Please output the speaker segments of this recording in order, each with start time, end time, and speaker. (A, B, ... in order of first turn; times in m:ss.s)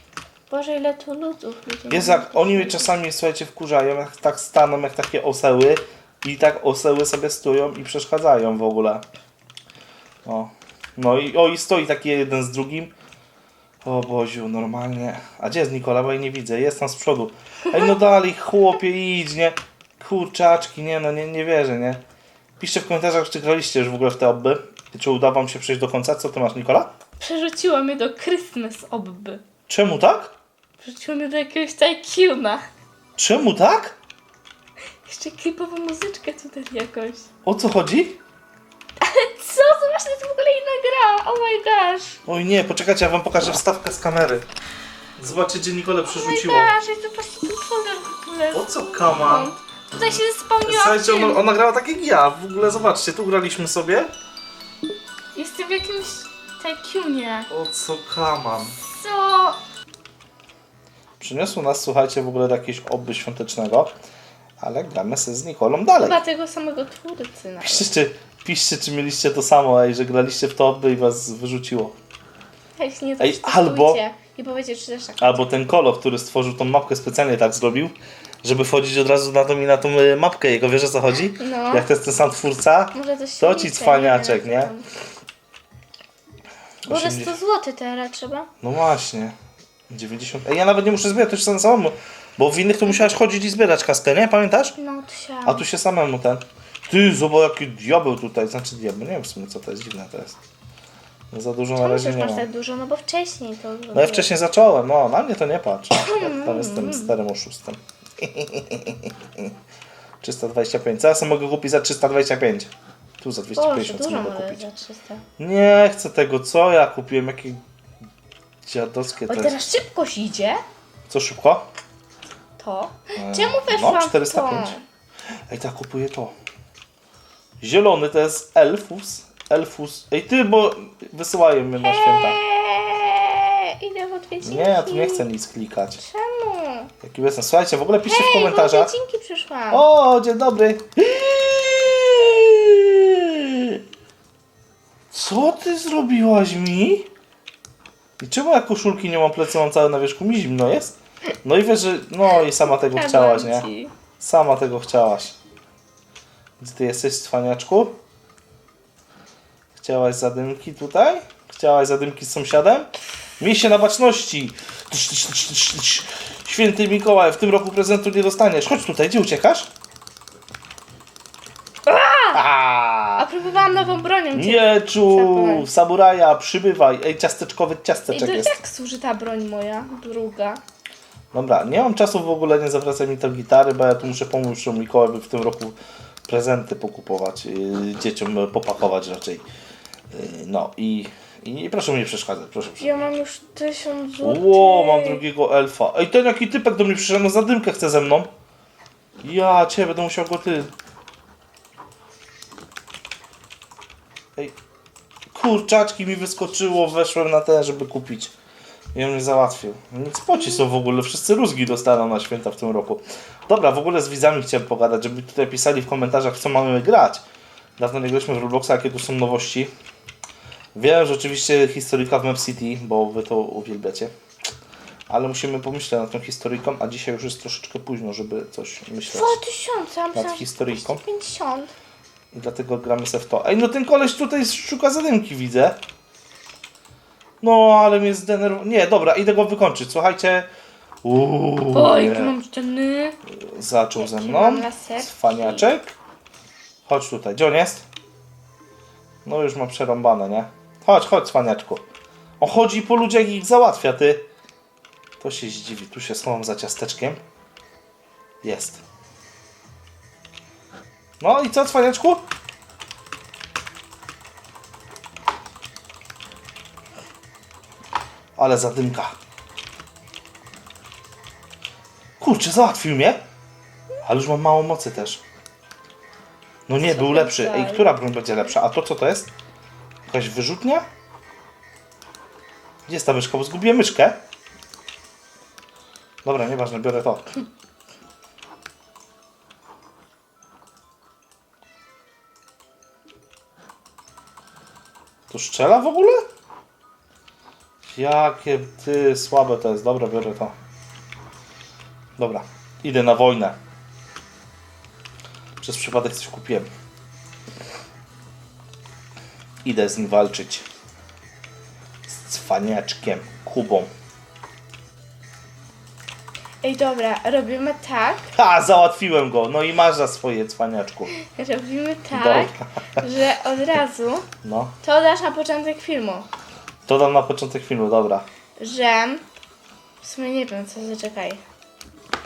0:00.5-0:02.9 A
0:01.9-0:09.0 B
0:10.2-0:12.9 B
0:13.8-0:22.0 B
0:22.6-0:26.9 B
0:27.2-0:29.4 A
0:29.7-0:30.3 B
0:30.8-0:32.6 A
0:33.2-0:34.0 B
0:35.0-0:37.3 A
0:37.4-0:38.2 B
0:39.0-0:42.2 A
0:42.2-0:44.4 B
0:45.2-0:46.7 B
0:46.0-0:51.4 A
0:48.5-0:49.5 B
0:50.6-0:54.1 B
0:55.3-0:57.5 A
0:57.5-0:58.8 B
0:58.8-0:59.6 A
1:01.2-1:03.9 B
1:04.6-1:06.2 B
1:06.0-1:07.9 A
1:07.6-1:11.9 B
1:12.8-1:15.3 A
1:13.2-1:14.0 B
1:15.2-1:24.7 B
1:21.4-1:21.9 A
1:22.9-1:24.8 A
1:26.8-1:27.4 B
1:26.9-1:28.5 A
1:28.6-1:29.4 B
1:29.9-1:34.8 B
1:34.8-1:35.6 A
1:35.4-1:40.4 B
1:41.3-1:42.4 B
1:41.8-1:44.3 A
1:43.9-1:49.4 B
1:46.0-1:47.1 A
1:50.2-1:54.6 B
1:53.6-1:55.2 A
1:55.4-1:57.6 B
1:58.6-1:59.6 B
1:59.3-2:00.6 A
2:01.1-2:01.7 B
2:02.6-2:04.8 A
2:03.1-2:04.8 B
2:05.5-2:06.3 B
2:07.6-2:12.4 B
2:11.8-2:15.2 A
2:14.4-2:16.0 B
2:16.0-2:16.9 A
2:17.0-2:18.9 B
2:18.0-2:19.8 A
2:19.7-2:23.8 B
2:25.1-2:27.1 B
2:28.2-2:35.3 B
2:32.9-2:33.9 A
2:36.6-2:38.0 B
2:39.8-2:49.7 B
2:51.8-2:52.4 A
2:52.3-2:53.2 B
2:53.2-2:55.7 A
2:54.3-2:58.6 B
2:58.1-3:00.6 A
3:01.3-3:05.8 B
3:06.3-3:09.4 B
3:10.1-3:13.0 B
3:12.8-3:15.2 A
3:14.2-3:18.3 B
3:19.2-3:20.7 B
3:25.3-3:28.3 B
3:28.9-3:37.2 B
3:37.8-3:39.7 B
3:40.7-3:44.1 B
3:45.1-3:49.4 B
3:49.1-3:51.7 A
3:50.1-3:51.0 B
3:52.3-3:55.8 B
3:57.4-4:00.5 B
4:01.0-4:02.3 B
4:01.7-4:03.2 A
4:03.3-4:05.9 B
4:04.0-4:05.6 A
4:06.8-4:07.8 B
4:09.2-4:11.8 B
4:12.4-4:14.2 B
4:15.2-4:17.2 B
4:18.4-4:18.8 B
4:21.2-4:22.2 B
4:28.4-4:29.1 B
4:32.2-4:33.2 B
4:34.0-4:35.2 B
4:36.7-4:39.3 B
4:36.8-4:37.9 A
4:40.0-4:40.8 B
4:42.9-4:44.2 B
4:46.2-4:47.3 B
4:55.3-4:56.2 B
4:57.8-5:00.5 B
5:02.2-5:03.6 B
5:05.6-5:06.7 B
5:09.6-5:10.7 B
5:12.1-5:13.9 B
5:16.6-5:18.3 A
5:18.3-5:21.1 B
5:21.1-5:24.2 A
5:22.1-5:23.0 B
5:24.4-5:24.7 B
5:24.8-5:26.2 A
5:26.8-5:28.2 B
5:28.6-5:29.2 A
5:30.0-5:31.4 A